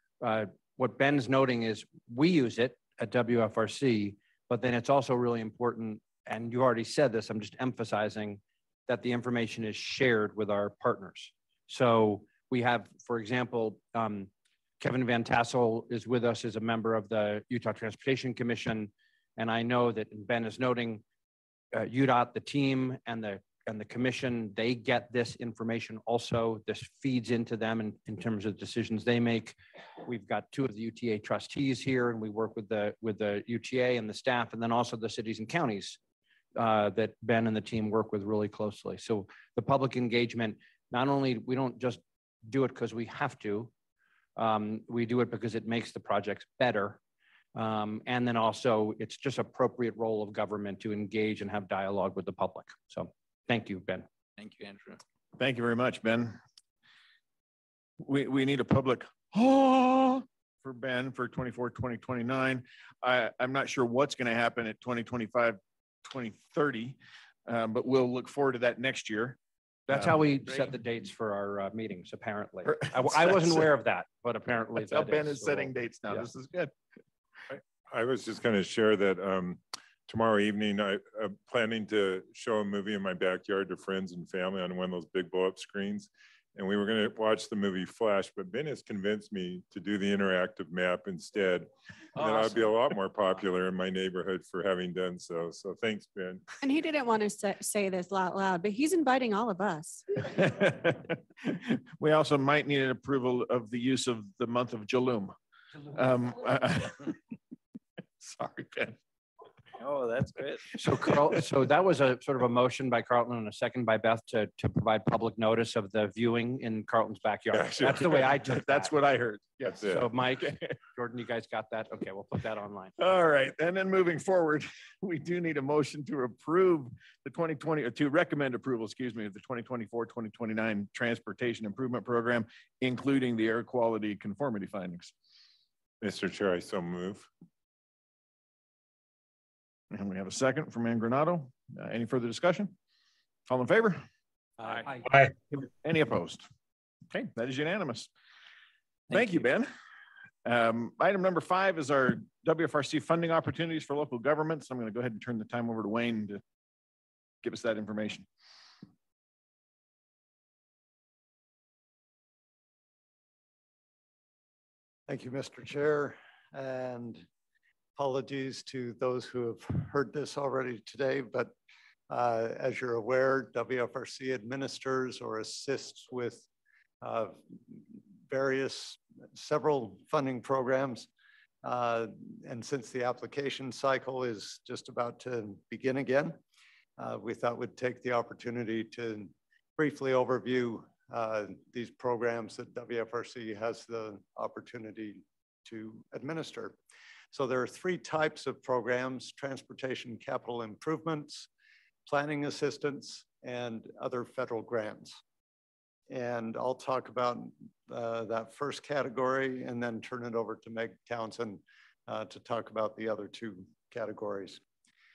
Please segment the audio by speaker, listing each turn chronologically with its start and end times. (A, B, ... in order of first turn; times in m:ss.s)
0:00.2-0:21.0 A
0:21.7-0:36.0 A
0:36.6-0:43.7 A
0:44.4-0:47.0 A
0:47.5-0:54.0 A
0:54.4-0:55.0 B
0:55.4-0:56.4 C
0:58.0-1:09.4 C
1:09.9-1:16.3 A
1:09.9-1:10.8 C
1:12.6-1:13.7 C
1:14.8-1:16.7 C
1:17.9-1:36.4 D
1:32.2-1:32.7 B
1:36.6-1:40.0 E
1:40.2-1:45.3 C
1:45.9-1:47.2 C
1:48.2-1:49.0 C
1:49.8-1:50.6 B
1:50.8-1:58.9 A
1:50.9-1:51.4 C
1:57.5-2:00.7 C
1:57.6-1:58.1 D
1:59.8-2:02.9 A
2:03.0-2:15.1 C
2:16.0-2:17.3 D
2:19.9-2:22.7 C
2:23.5-2:24.0 C
2:24.7-2:25.1 A
2:25.1-2:26.4 C
2:27.1-2:28.1 C
2:29.1-2:29.7 C
2:29.1-2:29.4 B
2:30.4-2:36.4 C
2:37.4-2:38.2 C
2:45.1-2:47.2 F
2:48.0-2:51.5 F
2:52.1-2:56.4 F
2:57.0-3:01.1 F
3:01.6-3:06.4 F
3:07.0-3:16.8 F
3:17.3-3:21.5 F
3:22.1-3:25.2 F
3:26.1-3:34.6 F